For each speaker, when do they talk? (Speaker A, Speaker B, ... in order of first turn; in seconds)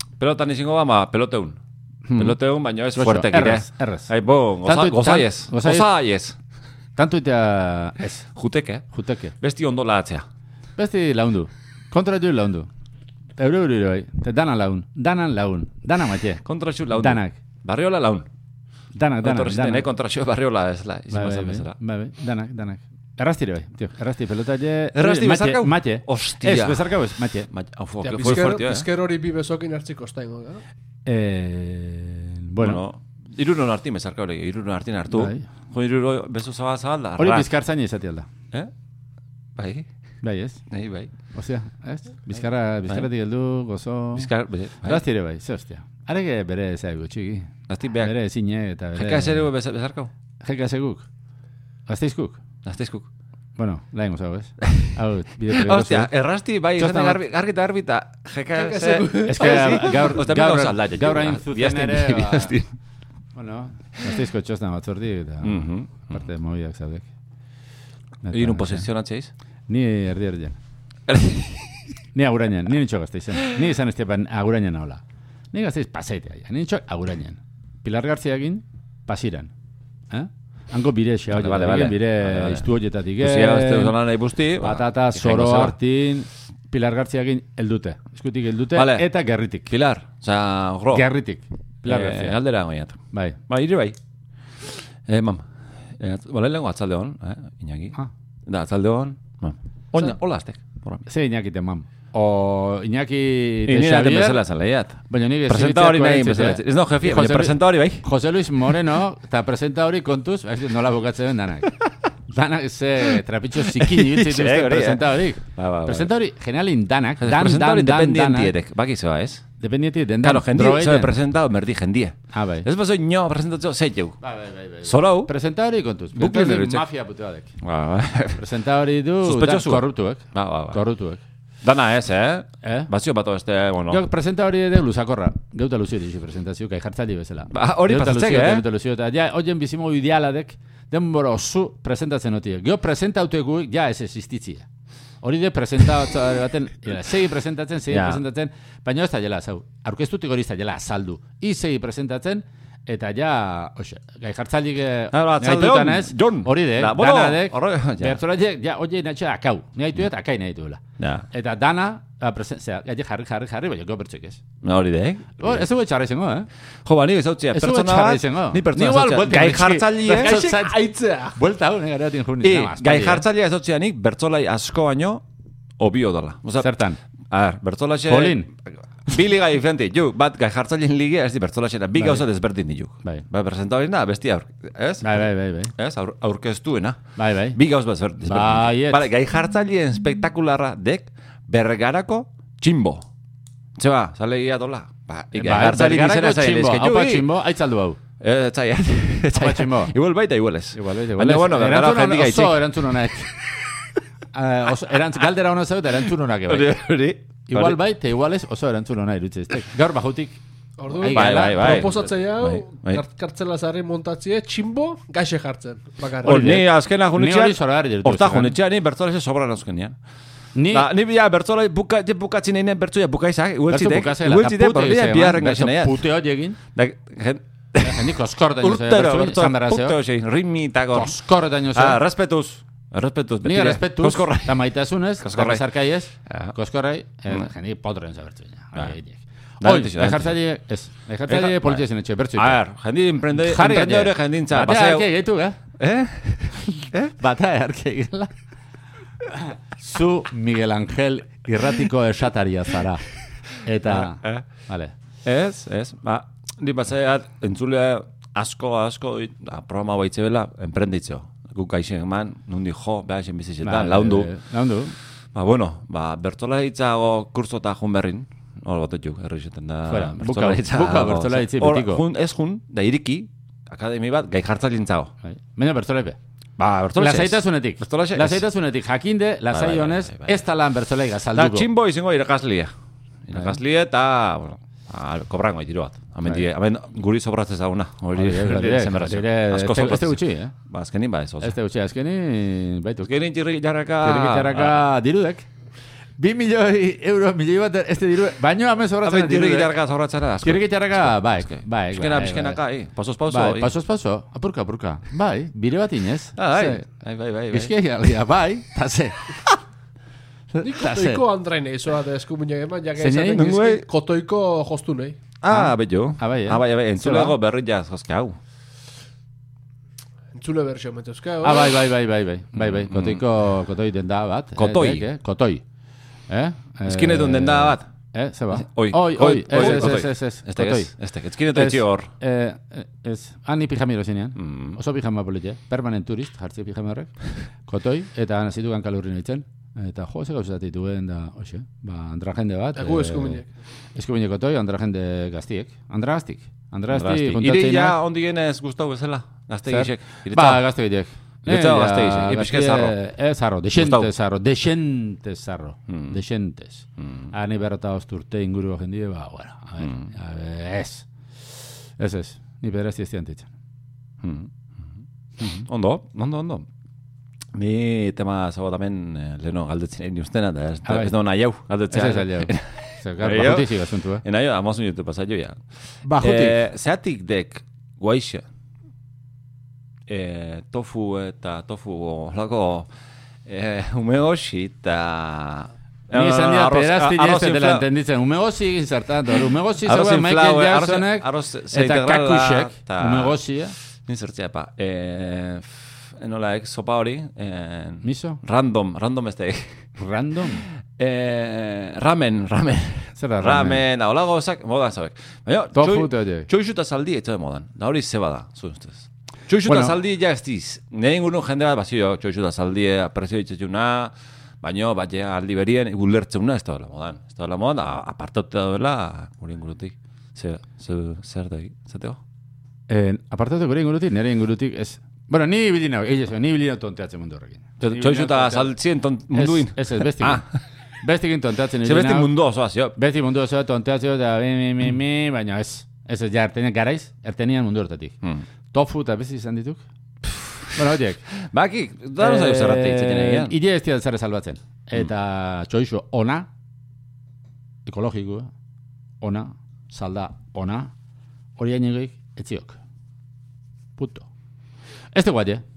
Speaker A: 0.2-1.6, 2.1-6.4, 8.3-8.8, 9.4-10.2, 16.4-18.3, 19.2-21.8, 24.9-27.0, 27.5-28.9, 32.6-37.5, 39.6-39.9, 40.7-41.1, 44.1-45.0, 47.7-48.1, 49.0-50.1, 52.6-53.1, 55.5-62.7, 65.4-66.2, 68.3-69.3, 71.1-71.8, 73.3-73.6, 81.3-85.8, 88.7-89.1, 89.7-91.1, 91.8-94.0, 94.6-101.0, 103.7-108.0, 113.7-116.1, 117.2-119.4, 120.2-124.2, 124.8-125.3, 126.2-126.9, 127.6-128.4, 129.2-130.8, 131.6-134.0, 137.5-138.7, 147.9-148.2, 155.1-158.2, 161.0-161.3, 164.6-165.7, 166.8-170.4, 172.4-175.2, 175.8-176.8, 177.3-187.0, 187.5-193.1, 193.8-197.4, 198.2-203.1, 206.5-207.8, 211.1-213.0, 216.2-220.0, 220.7-226.0, 226.7-231.2, 231.7-234.7, 235.2-235.6, 236.3-236.5, 239.6-240.3, 241.3-245.1, 245.8-247.1, 253.8-254.4, 255.2-264.3, 265.3-275.1, 276.6-278.5, 279.5-280.4, 281.4-282.7, 283.3-291.6, 293.0-294.8, 299.0-303.7, 306.4-307.8, 313.3-313.9, 315.4-318.4, 322.6-323.2, 324.6-325.1, 326.9-327.9, 328.5-332.1, 334.4-334.8, 346.9-350.6, 351.4-353.0, 353.8-354.1, 355.9-356.2, 357.0-357.3, 359.8-360.1, 364.2-366.7, 367.5-375.6, 376.2-378.4, 380.1-382.9, 383.5-387.9, 389.8-393.4, 394.1-399.8, 400.9-422.2, 427.8-430.6, 431.8-432.9, 440.2-440.8, 441.4-443.6
Speaker B: 2.1-2.4, 3.0-4.1, 4.6-5.9, 7.0-8.3, 8.9-9.3, 10.8-12.7, 13.4-16.4, 16.9-17.4, 18.9-19.9, 21.1-27.5, 31.1-32.8, 35.1-35.5, 37.2-38.3, 40.2-40.6, 41.3-44.3, 44.8-47.5, 48.0-49.5, 50.4-51.1, 51.9-52.4, 53.6-56.1, 56.8-57.2, 59.3-62.6, 63.4-67.1, 68.2-68.9, 69.7-70.6, 72.2-75.0, 75.5-79.5, 80.1-84.0, 84.6-89.7, 90.9-92.4, 93.1-93.4, 101.1-104.4, 105.1-111.7, 112.3-118.5, 119.6-121.2, 122.3-122.7, 124.2-127.5, 128.3-131.2, 132.6-132.9, 133.9-144.7, 145.2-164.4, 165.4-166.5, 167.5-173.2, 176.6-177.0, 178.1-178.5, 182.0-182.2, 185.0-185.7, 187.2-187.6, 188.2-189.1, 195.3-198.0, 199.3-199.9, 200.7-203.3, 204.3-206.8, 207.5-211.9, 216.3-218.6, 220.6-220.9, 223.7-226.6, 227.8-230.0, 230.9-232.0, 233.4-242.6, 243.3-245.6, 246.6-248.3, 249.3-253.1, 253.6-254.9, 263.6-264.9, 269.9-272.1, 275.2-276.2, 276.9-281.7, 288.1-290.5, 291.4-293.1, 294.0-295.5, 296.2-299.8, 300.4-302.6, 303.3-306.9, 307.5-309.4, 310.5-311.2, 313.0-313.5, 315.5-317.4, 321.4-325.6, 326.3-330.9, 331.5-337.1, 337.7-343.4, 343.9-348.0, 349.7-361.1, 362.0-363.5, 370.9-371.1, 371.9-374.2, 376.0-376.6, 386.1-393.8, 398.0-398.4, 400.0-400.6, 403.2-403.8, 405.8-406.5, 409.6-410.0, 422.9-428.7, 429.3-430.4, 431.0-432.3, 433.0-438.2, 438.7-439.8, 440.8-441.2, 442.2-446.5, 447.9-448.5, 449.2-450.9, 451.6-452.8, 454.0-454.3, 455.1-455.6
Speaker C: 28.0-30.6, 58.5-60.1, 170.1-171.4, 210.8-216.6, 310.6-315.2, 320.3-321.9, 342.8-343.5